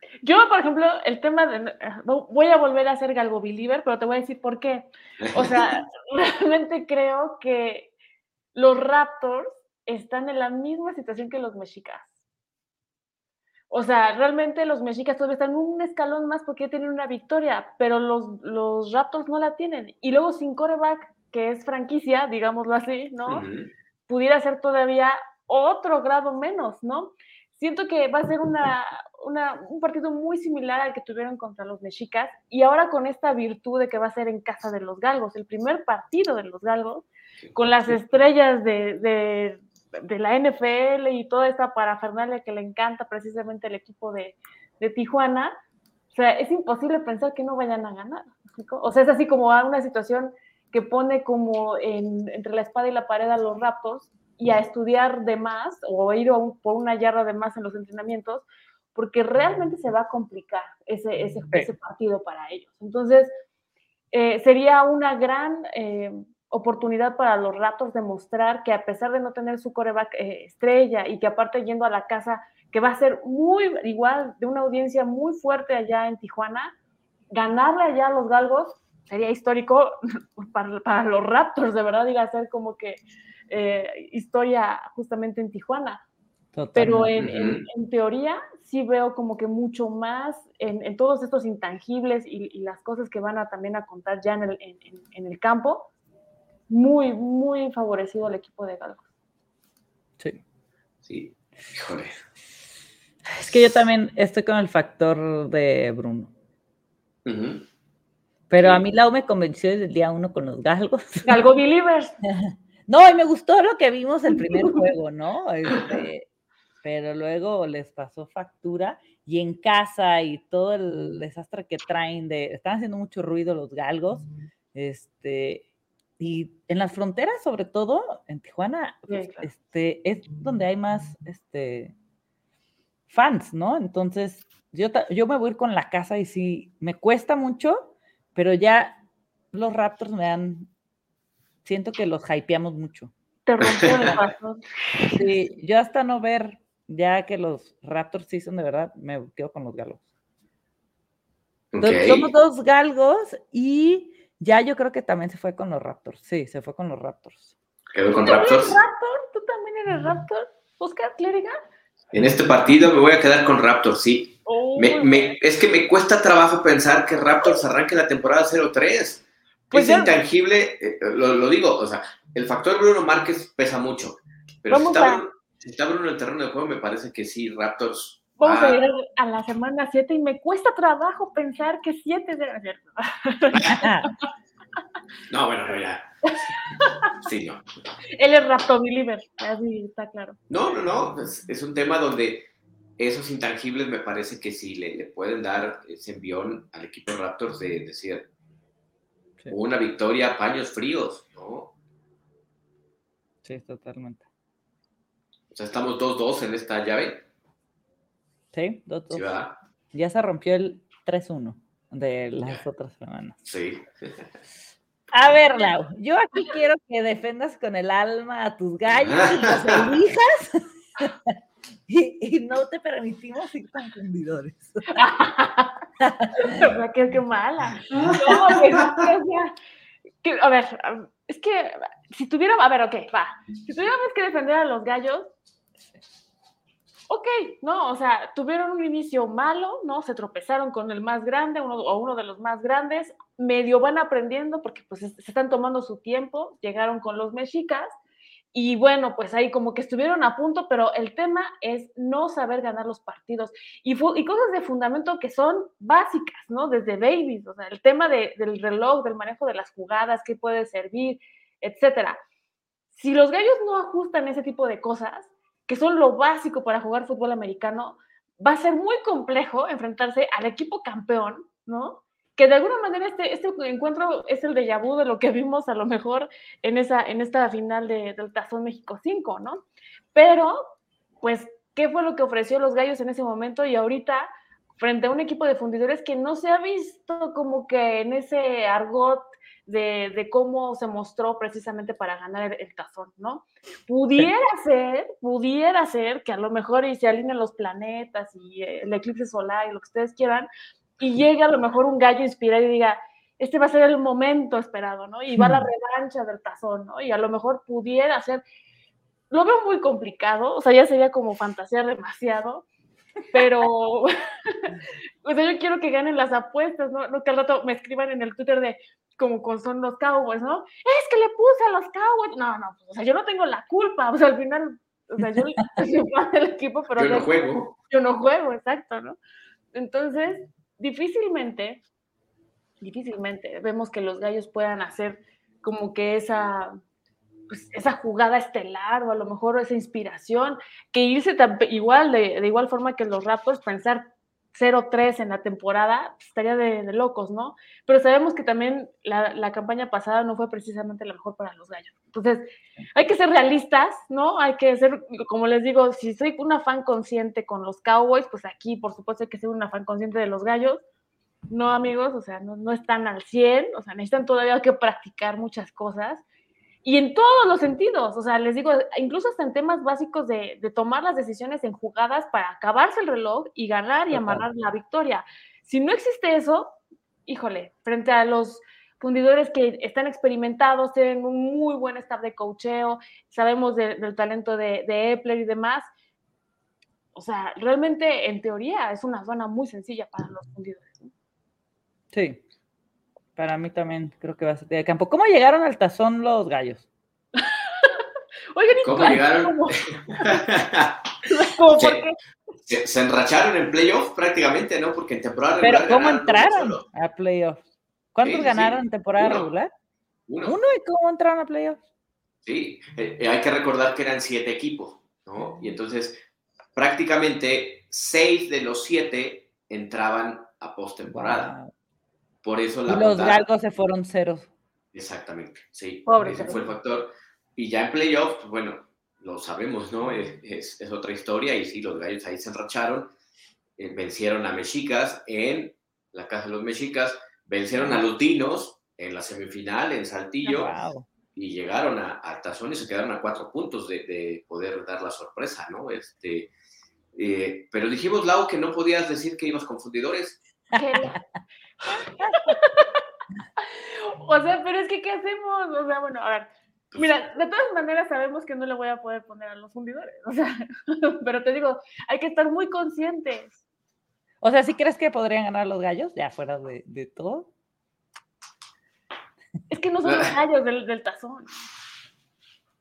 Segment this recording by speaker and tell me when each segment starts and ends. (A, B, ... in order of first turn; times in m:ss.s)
0:00.2-0:07.9 A
0:05.2-0:05.6 B
0:08.5-0:12.1 A
0:13.7-0:23.4 A
0:23.3-0:23.7 B
0:24.1-0:45.5 A
0:46.1-1:03.3 A
1:04.1-1:16.7 A
1:17.3-1:26.0 A
1:26.5-1:27.1 C
1:26.7-1:35.9 A
1:27.2-1:27.6 B
1:36.7-1:39.0 A
1:41.0-1:42.2 B
1:43.3-1:46.3 C
1:47.2-1:47.6 B
1:48.5-1:51.4 C
1:51.2-1:52.1 A
1:52.4-1:56.3 C
1:54.5-1:54.8 A
1:56.8-2:05.6 C
2:06.2-2:11.9 C
2:09.1-2:09.5 A
2:13.1-2:19.0 C
2:19.5-2:20.7 C
2:21.6-2:23.1 C
2:23.4-2:25.2 A
2:23.6-2:24.1 B
2:25.1-2:30.0 C
2:31.7-2:32.3 B
2:31.8-2:37.5 C
2:37.9-2:38.8 B
2:38.2-2:41.6 A
2:42.1-2:58.8 B
2:44.4-2:45.4 A
2:49.7-2:50.1 A
2:54.7-2:55.2 A
2:58.4-3:04.1 A
3:03.7-3:04.1 C
3:05.3-3:06.1 B
3:06.2-3:07.1 A
3:07.2-3:07.6 B
3:08.2-3:10.4 A
3:10.5-3:12.5 B
3:13.0-3:18.3 B
3:19.5-3:21.7 B
3:23.4-3:24.2 C
3:25.5-3:27.2 B
3:28.5-3:29.3 C
3:29.1-3:29.6 B
3:29.9-3:33.4 C
3:33.4-3:34.2 B
3:35.1-3:41.3 C
3:38.9-3:39.9 B
3:41.9-3:45.0 C
3:44.9-3:45.8 A
3:46.0-3:46.6 C
3:46.4-3:49.5 A
3:47.9-3:49.0 B
3:50.2-3:55.3 A
3:57.1-4:07.9 A
4:08.5-4:22.2 A
4:22.9-4:39.6 A
4:40.1-4:44.3 A
4:44.8-5:08.4 A
5:05.3-5:05.7 C
5:09.3-5:12.6 A
5:13.3-5:14.7 A
5:15.2-5:29.2 A
5:27.0-5:27.7 B
5:29.7-5:31.8 A
5:32.8-5:36.8 A
5:37.5-6:00.8 A
6:01.5-6:06.2 A
6:06.8-6:25.9 A
6:14.1-6:14.4 C
6:27.1-6:31.1 A
6:32.1-6:32.4 C
6:33.4-6:36.8 C
6:37.4-6:37.9 A
6:38.5-6:40.3 A
6:38.8-6:41.0 B
6:41.2-6:42.2 A
6:42.6-6:46.8 B
6:45.6-6:47.6 C
6:48.1-6:49.7 C
6:48.2-6:49.4 B
6:50.3-6:50.6 B
6:50.4-6:51.8 C
6:52.4-6:56.2 B
6:56.8-7:01.5 B
7:01.0-7:01.7 C
7:02.4-7:03.4 B
7:02.9-7:04.5 C
7:04.9-7:13.1 B
7:06.1-7:06.6 A
7:13.8-7:20.7 B
7:17.8-7:18.0 C
7:20.4-7:21.1 C
7:21.3-7:26.5 B
7:27.1-7:30.4 B
7:30.7-7:31.2 C
7:30.7-7:31.2 A
7:31.9-7:33.0 A
7:33.9-7:43.5 A
7:44.4-7:47.5 C
7:49.7-7:51.5 A
7:50.0-7:50.3 B